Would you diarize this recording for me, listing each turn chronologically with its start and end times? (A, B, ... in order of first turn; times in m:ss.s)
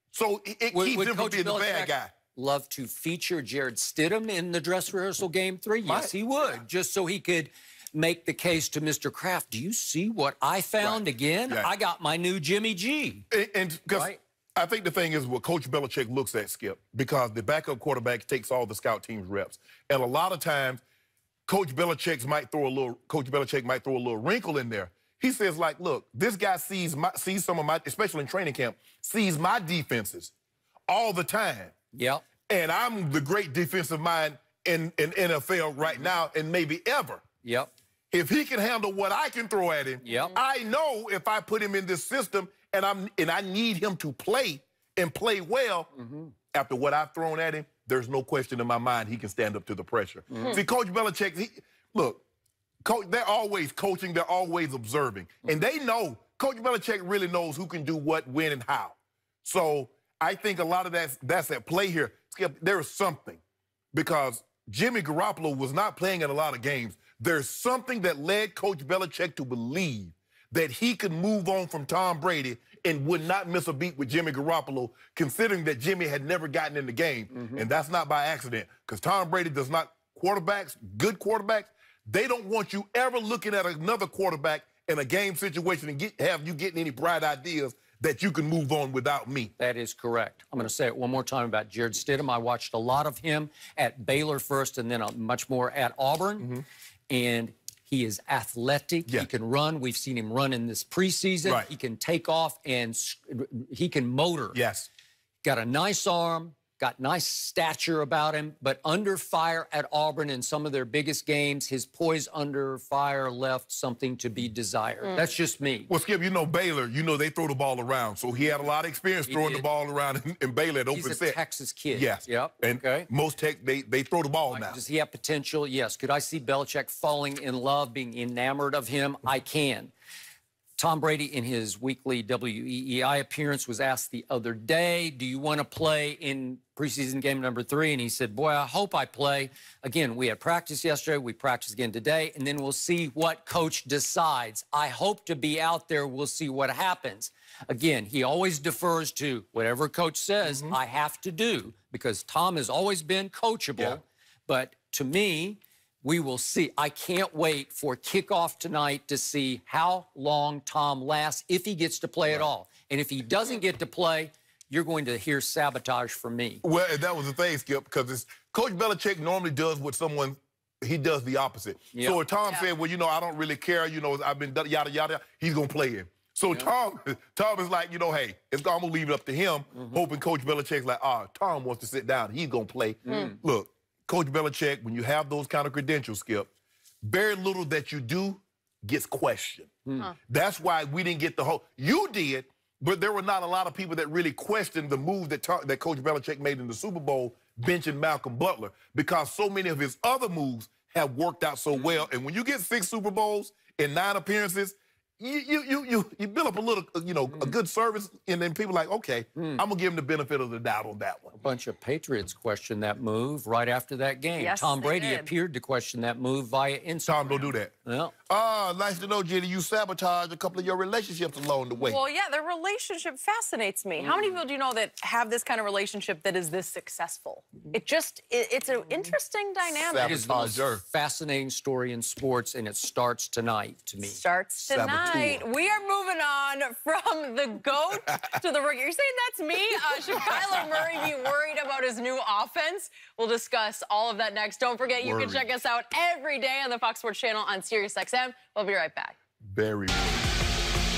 0:00.1-0:02.1 A
0:00.7-0:13.2 B
0:05.8-0:06.2 A
0:10.8-0:11.7 A
0:13.3-0:20.8 A
0:13.9-0:14.2 B
0:21.5-0:30.3 A
0:30.9-0:31.7 A
0:31.9-0:32.3 B
0:32.5-0:37.2 A
0:37.4-0:37.7 B
0:38.1-0:45.9 A
0:40.0-0:40.4 B
0:46.0-0:46.3 B
0:46.5-0:52.2 A
0:50.3-0:50.6 B
0:52.8-1:03.4 A
1:03.9-1:29.5 A
1:17.4-1:17.6 B
1:29.6-1:36.5 B
1:37.1-1:44.6 B
1:41.4-1:41.7 A
1:44.5-1:44.9 A
1:45.4-1:55.9 B
1:55.0-1:55.3 C
1:55.9-2:01.4 A
1:59.3-1:59.7 B
2:00.9-2:03.1 B
2:01.9-2:04.8 A
2:04.5-2:09.9 B
2:10.8-2:46.6 B
2:30.4-2:30.8 A
2:46.6-3:06.5 A
2:51.9-2:52.2 B
2:59.8-3:00.0 B
3:03.1-3:03.4 B
3:07.0-3:09.8 A
3:09.9-3:10.1 B
3:10.3-3:31.4 A
3:21.7-3:22.1 B
3:27.3-3:27.5 B
3:29.4-3:29.6 B
3:31.4-3:38.1 B
3:34.4-3:35.3 C
3:37.1-3:37.7 A
3:38.3-3:42.0 A
3:41.9-3:50.2 C
3:49.6-3:50.8 A
3:50.0-3:54.2 B
3:54.0-4:09.2 C
3:54.6-3:55.4 A
3:54.8-3:55.2 B
4:00.3-4:00.9 A
4:05.0-4:05.5 A
4:09.4-4:10.3 A